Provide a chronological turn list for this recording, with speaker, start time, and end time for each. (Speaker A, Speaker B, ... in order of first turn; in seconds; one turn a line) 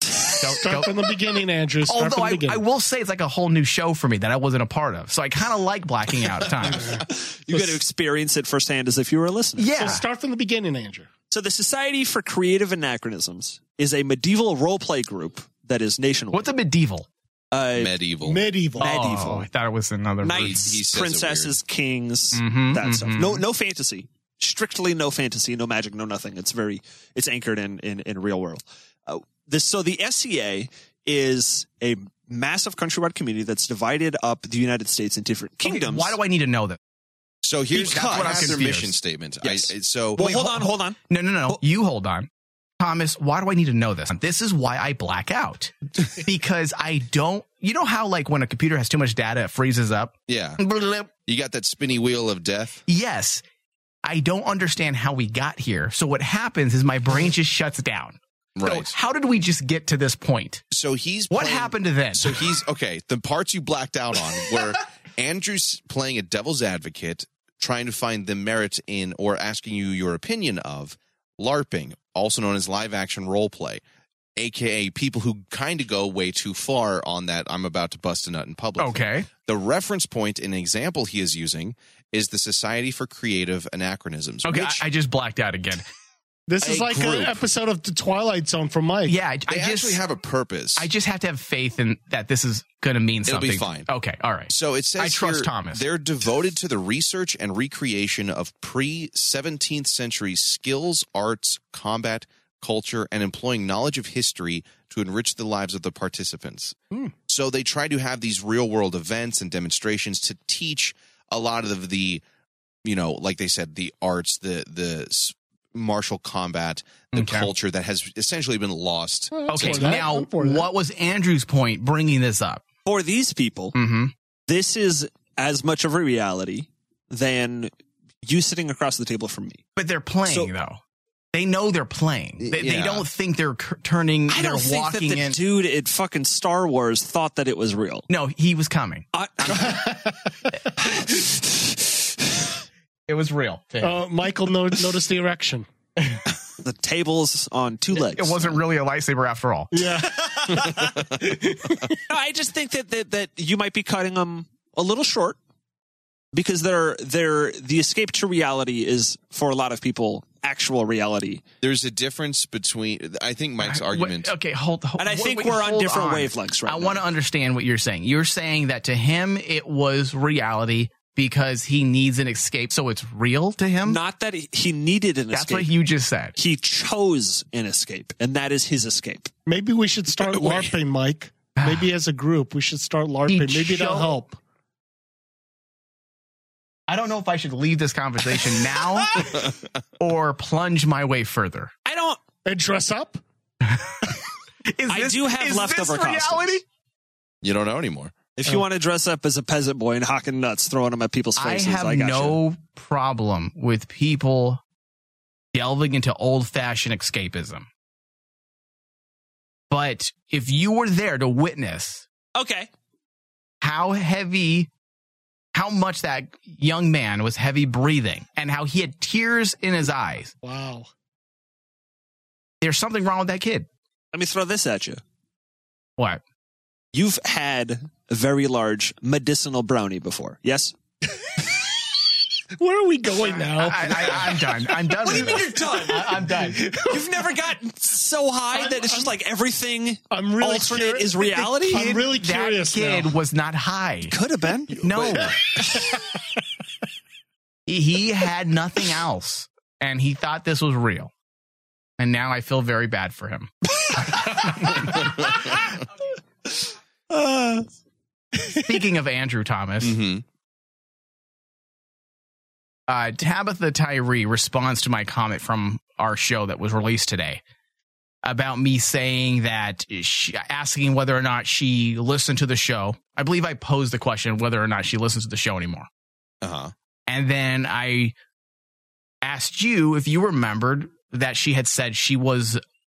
Speaker A: 0.3-0.9
Speaker B: 0.6-2.6
Speaker A: 1.9-7.0
Speaker C: 7.3-9.9
Speaker A: 9.6-10.0
Speaker B: 9.8-11.1
Speaker C: 11.3-16.5
Speaker A: 16.3-17.1
Speaker C: 17.5-17.9
Speaker D: 17.7-18.4
Speaker B: 18.2-19.0
Speaker C: 18.8-19.4
Speaker A: 18.8-20.8
Speaker C: 20.2-36.1
Speaker D: 20.2-21.6
Speaker A: 22.3-23.4
Speaker A: 35.6-36.8
Speaker D: 37.4-40.2
Speaker C: 37.8-38.5
Speaker A: 37.8-38.9
Speaker C: 39.4-41.0
Speaker A: 40.2-42.3
Speaker A: 42.8-51.1
Speaker D: 50.3-50.6
Speaker D: 51.3-52.8
Speaker A: 52.9-53.4
Speaker A: 54.0-60.6
Speaker D: 58.5-58.9
Speaker D: 60.7-73.8
Speaker A: 61.3-62.5
Speaker D: 74.3-84.8
Speaker A: 78.8-79.3
Speaker A: 84.4-85.8
Speaker B: 86.5-89.2
Speaker D: 86.6-87.4
Speaker A: 89.1-90.0
Speaker D: 89.5-90.9
Speaker A: 90.8-95.8
Speaker D: 93.2-93.9
Speaker D: 94.5-106.8
Speaker D: 107.3-112.2
Speaker D: 112.8-120.0
Speaker A: 117.1-117.5
Speaker B: 119.3-120.7
Speaker A: 119.5-122.6
Speaker C: 122.8-123.7
Speaker A: 123.7-124.1
Speaker C: 124.5-127.7
Speaker C: 128.2-129.6
Speaker A: 129.8-130.8
Speaker C: 130.3-130.5
Speaker A: 131.3-135.4
Speaker D: 132.4-133.1
Speaker C: 134.3-138.0
Speaker A: 138.1-139.8
Speaker C: 139.1-139.9
Speaker B: 139.7-140.1
Speaker C: 140.8-142.4
Speaker A: 143.1-144.0
Speaker B: 143.8-145.7
Speaker C: 146.6-148.6
Speaker A: 147.9-149.8
Speaker B: 149.7-151.9
Speaker C: 152.1-155.4
Speaker C: 156.3-161.4
Speaker D: 161.6-164.3
Speaker A: 163.6-174.0
Speaker C: 165.0-167.0
Speaker C: 173.8-175.7
Speaker A: 175.3-176.3
Speaker C: 176.3-179.3
Speaker B: 179.5-184.4
Speaker C: 180.2-180.7
Speaker A: 181.6-181.9
Speaker A: 183.3-184.1
Speaker A: 186.9-189.3
Speaker A: 190.0-191.7
Speaker C: 191.8-192.2
Speaker B: 192.4-193.2
Speaker A: 193.7-194.2
Speaker A: 194.7-196.6
Speaker C: 194.9-196.6
Speaker D: 197.4-198.2
Speaker C: 198.3-202.4
Speaker A: 201.3-204.6
Speaker A: 205.5-207.7
Speaker A: 209.7-212.1
Speaker C: 212.3-212.7
Speaker A: 213.6-214.7
Speaker A: 215.5-220.3
Speaker B: 220.4-220.9
Speaker A: 222.6-223.7
Speaker C: 224.1-225.0
Speaker C: 226.9-230.7
Speaker B: 232.6-234.3
Speaker A: 233.6-236.7
Speaker C: 233.9-234.3
Speaker C: 235.0-241.8
Speaker B: 236.4-237.0
Speaker B: 238.5-239.1
Speaker B: 240.1-243.2
Speaker A: 241.6-244.1
Speaker C: 244.1-244.8
Speaker D: 244.8-245.3
Speaker A: 244.8-245.3
Speaker A: 247.7-251.1
Speaker A: 252.0-253.5
Speaker A: 254.3-254.6
Speaker C: 257.1-257.6
Speaker A: 258.6-259.9
Speaker D: 259.8-260.2
Speaker A: 262.9-267.4
Speaker A: 268.2-275.9
Speaker D: 276.4-276.7
Speaker A: 277.1-278.1
Speaker A: 279.2-282.6